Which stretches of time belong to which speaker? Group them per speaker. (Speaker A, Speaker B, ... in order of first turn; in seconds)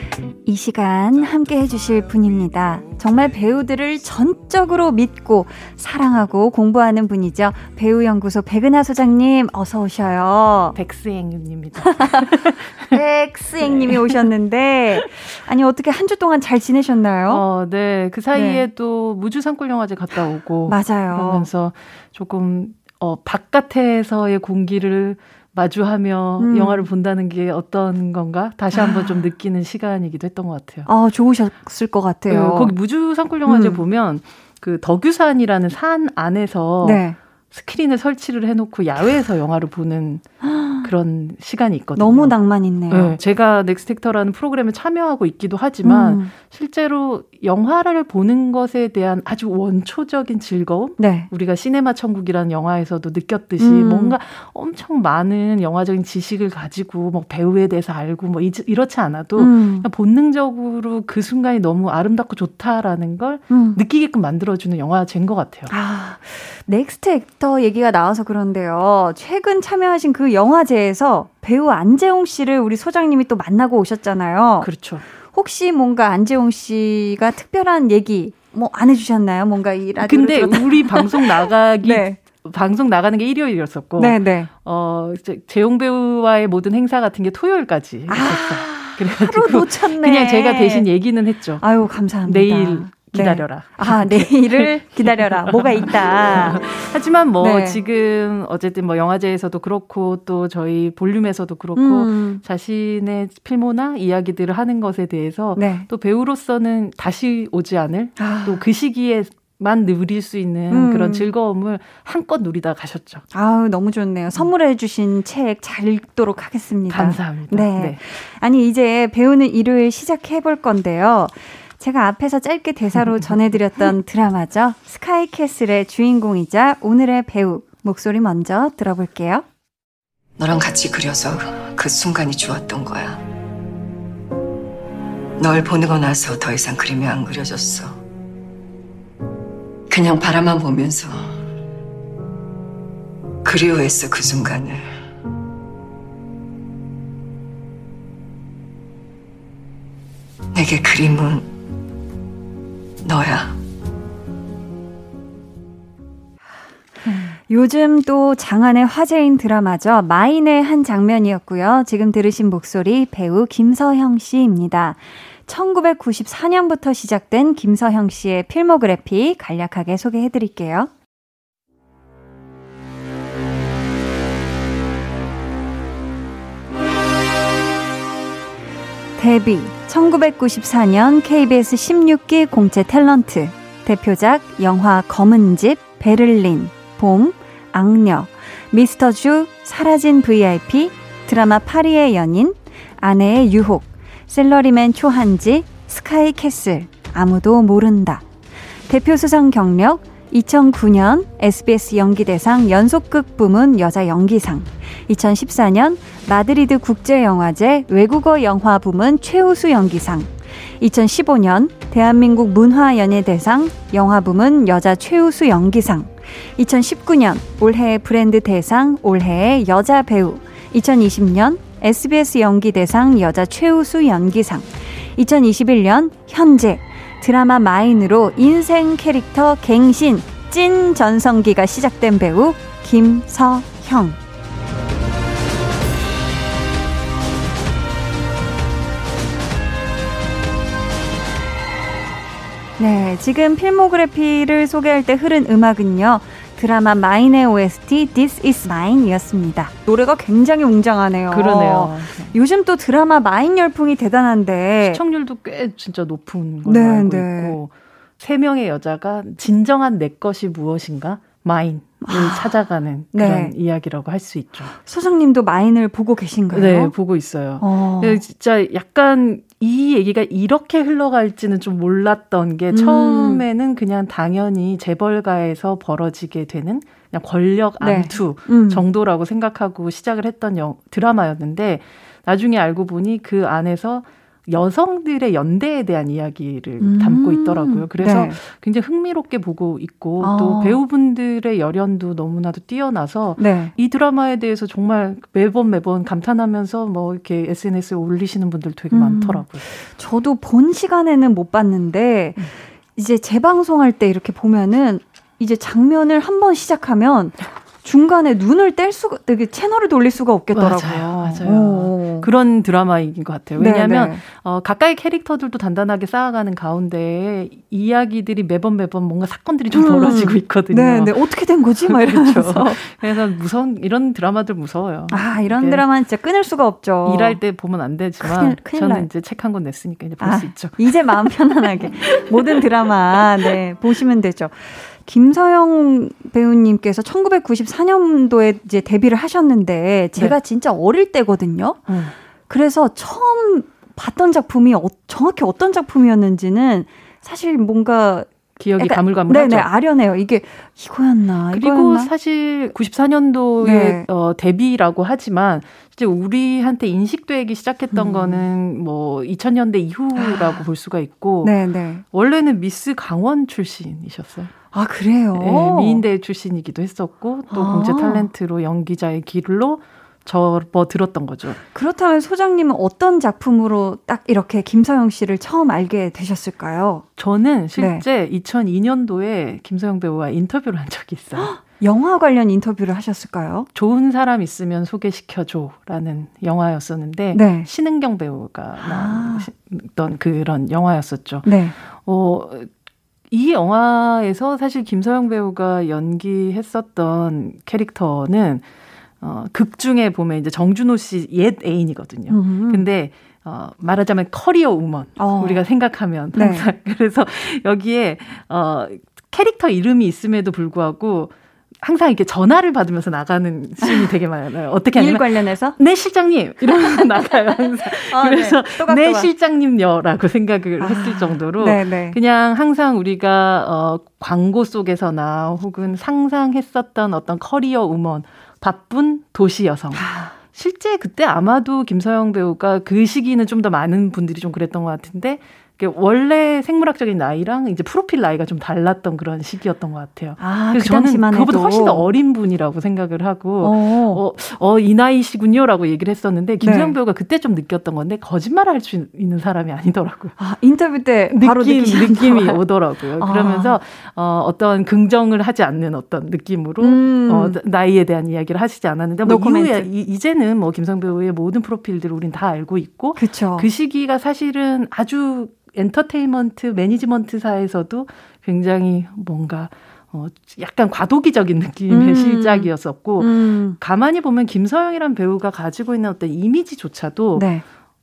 Speaker A: 0.5-10.8, 12.9-17.4, 18.3-18.6, 20.7-21.5, 26.4-26.9, 28.7-29.1, 30.9-32.7, 33.5-33.8, 36.8-37.1, 40.4-40.9, 42.0-43.1, 45.8-46.3, 51.0-51.3, 53.6-54.1, 59.4-59.9, 63.5-63.8, 65.7-74.7, 75.3-82.2, 84.0-84.5, 88.1-90.8, 91.6-96.8, 97.4-97.8, 101.8-102.4, 105.5-105.9, 108.2-108.6, 110.7-111.3, 113.3-129.4, 157.0-170.9, 179.2-198.2, 198.9-234.2, 242.8-255.0, 256.6-257.6, 262.0-262.5, 263.1-263.5, 264.7-266.9, 267.6-268.2, 272.7-273.4, 277.8-278.9, 286.8-288.4, 290.2-290.8, 293.4-293.7, 298.9-312.3, 313.6-314.2, 319.7-322.8, 325.1-327.4, 328.2-329.1, 330.2-341.8, 342.5-352.1, 353.6-354.1, 357.9-358.4, 360.1-360.6, 361.4-362.0, 364.7-366.0, 367.5-368.3, 371.7-377.0, 377.8-378.0, 381.4-383.7, 387.3-387.7, 388.8-389.5, 391.4-391.7, 402.3-402.9, 405.2-405.6, 406.3-406.7, 414.9-415.8, 418.0-419.3, 420.8-422.2, 429.9-430.3, 440.4-442.1, 443.6-444.2, 446.6-446.9, 450.4-452.6, 453.2-453.8, 456.8-457.6, 459.2-459.9, 463.2-463.7, 471.9-473.8, 477.3-477.6
Speaker B: 10.7-13.0, 13.6-14.2, 17.3-30.9, 32.3-40.2, 40.8-42.3, 42.9-65.7, 74.6-75.0, 80.0-91.6, 92.2-113.2, 116.9-118.0, 122.9-123.6, 251.3-252.3, 254.8-264.7, 266.5-299.6, 310.5-321.1, 321.9-325.8, 327.0-332.6, 341.9-342.1, 348.6-349.7, 351.5-361.5, 362.1-364.5, 365.3-371.6, 377.2-381.5, 383.7-392.7, 393.3-398.6, 399.2-450.3, 451.3-477.5
Speaker C: 130.4-133.2, 135.4-138.0, 139.9-141.3, 143.4-144.9, 150.5-151.5, 153.0-153.6